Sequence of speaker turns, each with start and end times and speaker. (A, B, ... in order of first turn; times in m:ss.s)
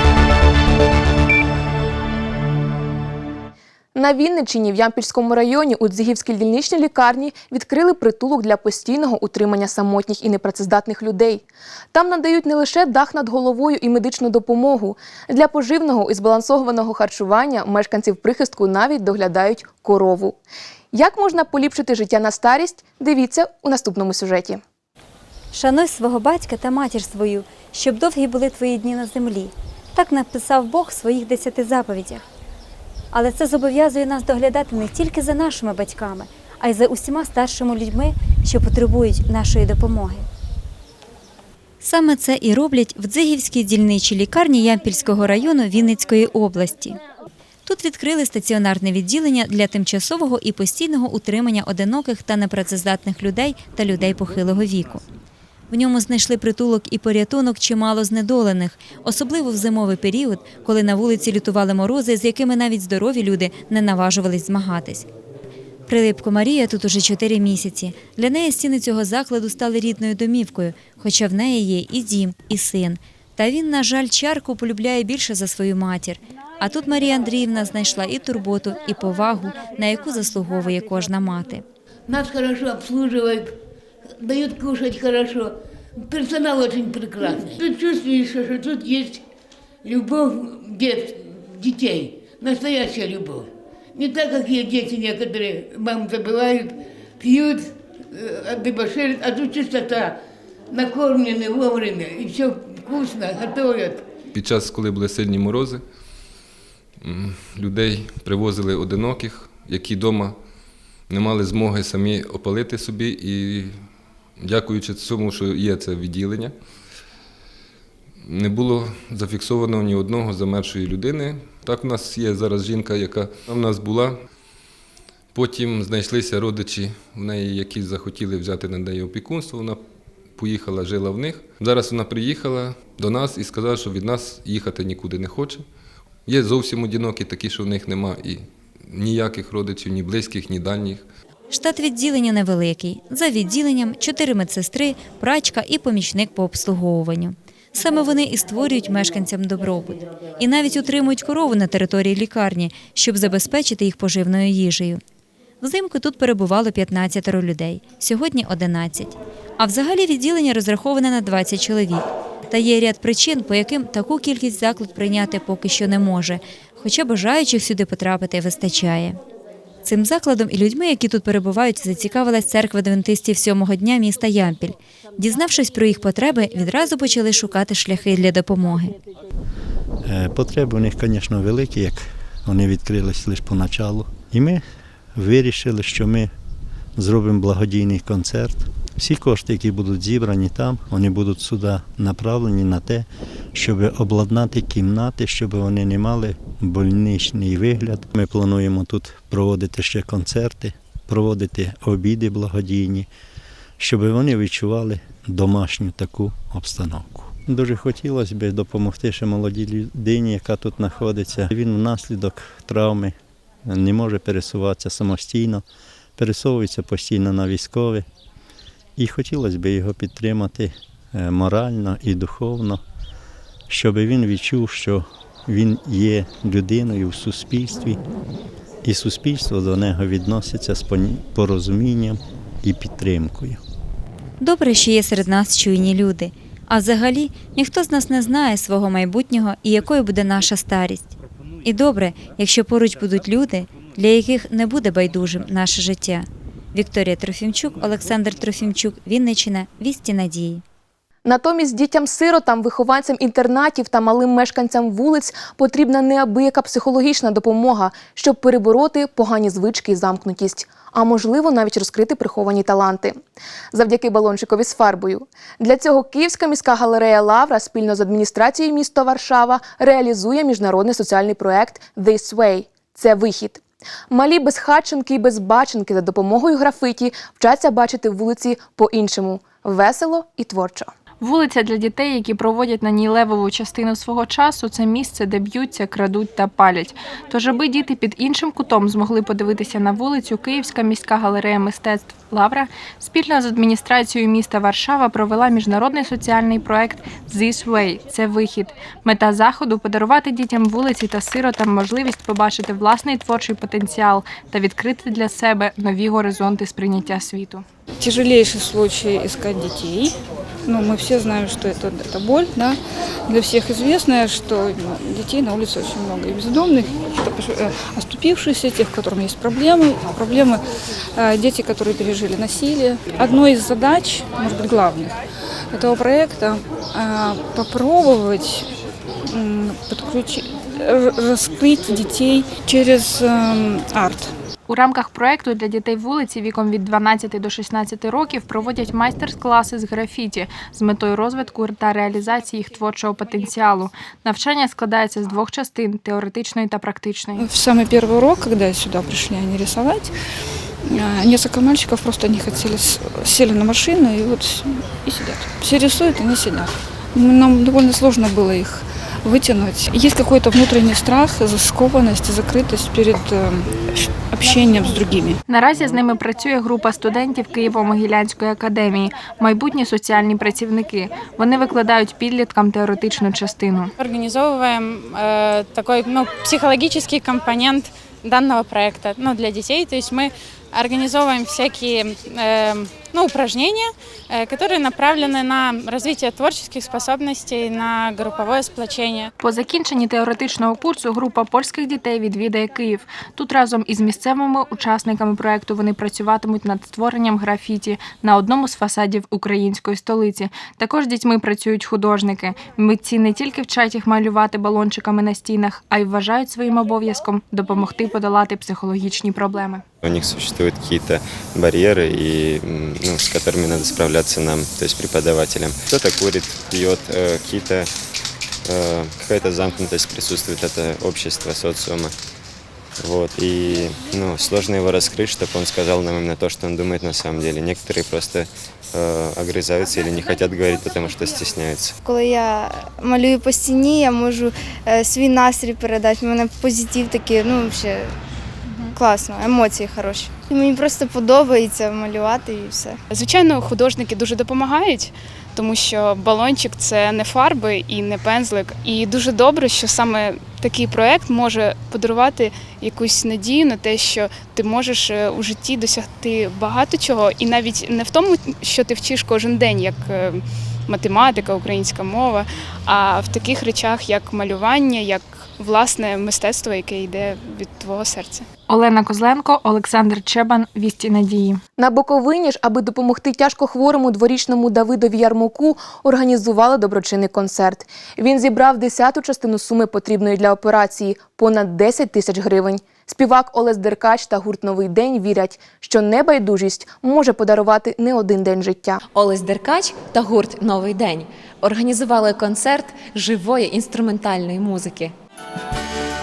0:04.0-0:20.4 A
0:20.9-0:24.6 A
0:25.5-0:32.2 B
0:33.1-0:40.3 B
0:41.8-0:47.0 B
0:47.6-0:55.0 B
0:55.7-1:05.1 B
1:05.9-1:21.6 B
1:22.1-1:23.6 C
1:24.2-1:29.2 C
1:29.8-1:40.2 C
1:40.7-1:44.1 C
1:44.3-1:45.8 D
1:47.0-1:50.4 D
1:51.1-1:53.8 D
1:54.4-1:56.6 D
1:58.2-2:04.2 D
2:05.3-2:09.8 D
2:10.4-2:15.6 D
2:16.3-2:21.1 D
2:21.5-2:35.0 B
2:35.6-2:49.2 B
2:49.8-2:59.0 B
3:00.0-3:04.6 E
3:05.2-3:06.3 E
3:07.0-3:23.1 E
3:23.8-3:35.6 E
3:36.2-3:38.1 E
3:39.0-3:42.8 E
3:43.7-3:48.0 E
3:48.8-3:53.6 E
3:54.4-4:01.1 B
4:01.6-4:10.6 B
4:11.2-4:23.2 A
4:23.7-4:40.9 A
4:41.2-5:07.6 F
5:08.0-5:20.6 G
5:21.2-5:25.2 G
5:25.7-5:28.7 G
5:29.2-5:34.3 G
5:34.7-5:47.5 F
5:47.4-5:50.1 G
5:50.8-6:05.4 G
6:05.5-6:13.9 F
6:14.0-6:29.3 H
6:29.4-6:49.8 F
6:50.0-6:57.9 I
6:58.7-7:02.1 I
7:03.0-7:12.0 I
7:12.0-7:18.1 J
7:19.0-7:23.0 J
7:23.1-7:48.5 K
7:48.7-7:51.6 F
7:51.8-8:09.0 A
8:09.1-8:15.1 L